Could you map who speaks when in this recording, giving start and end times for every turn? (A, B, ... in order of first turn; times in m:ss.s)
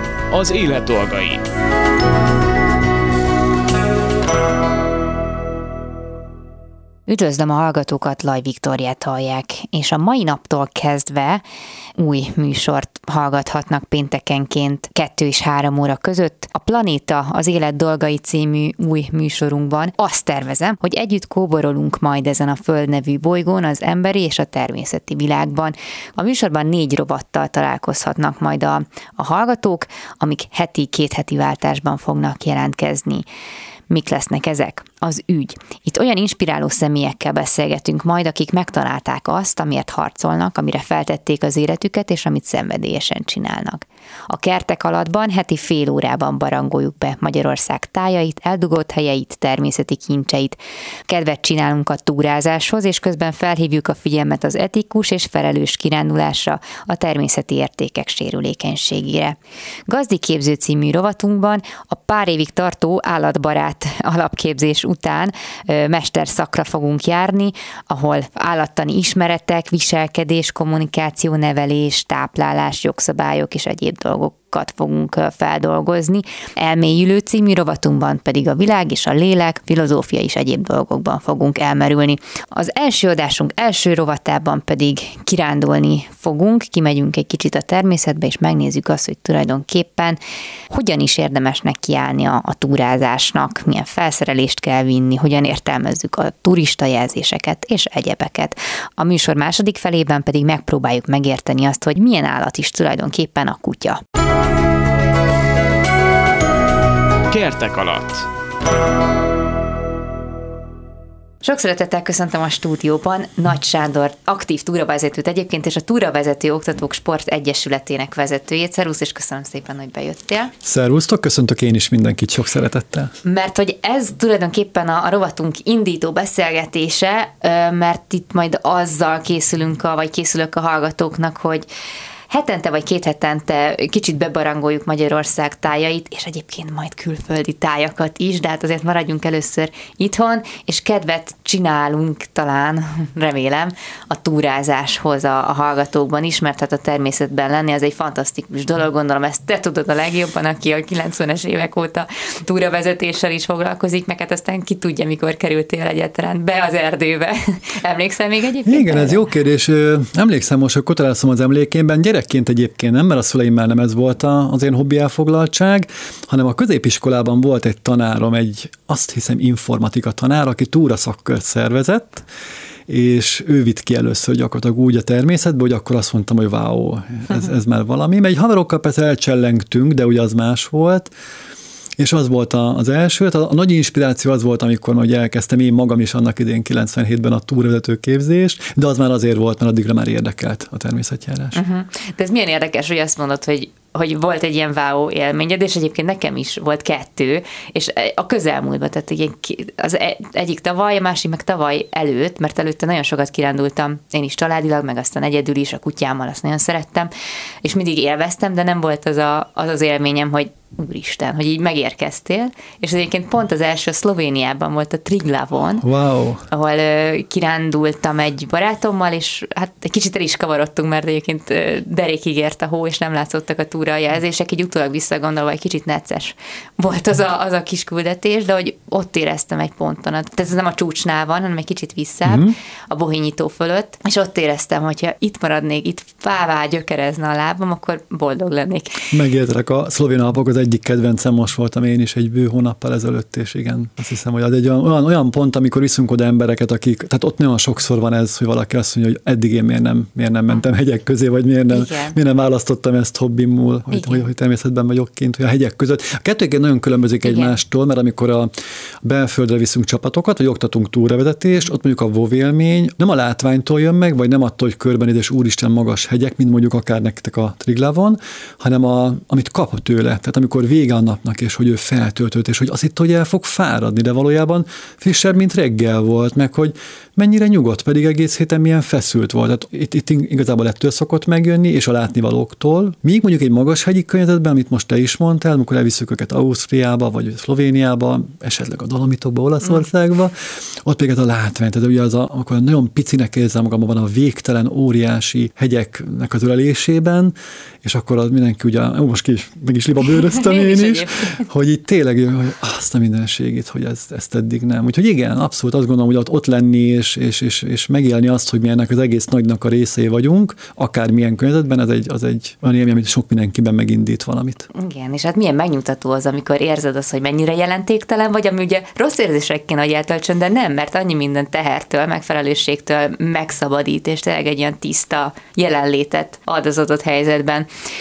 0:00.3-0:01.4 A
0:07.1-0:11.4 B
0:12.0-0:33.2 B
0:33.9-1:30.2 B
1:30.7-1:44.0 B
1:47.3-1:48.3 A
1:51.4-2:00.5 B
2:00.6-2:03.1 C
2:03.2-2:11.7 B
2:12.3-2:39.2 B
2:38.6-2:52.2 C
2:52.9-3:01.1 C
3:02.0-3:11.6 C
3:11.5-3:27.1 B
3:27.6-3:35.8 B
3:35.8-3:36.4 C
3:36.5-3:59.0 B
3:52.2-3:52.5 C
3:59.1-4:18.5 C
4:11.7-4:12.2 B
4:13.9-4:14.2 B
4:17.2-4:17.5 B
4:19.0-5:14.7 C
5:00.2-5:01.4 B
5:14.7-5:27.7 B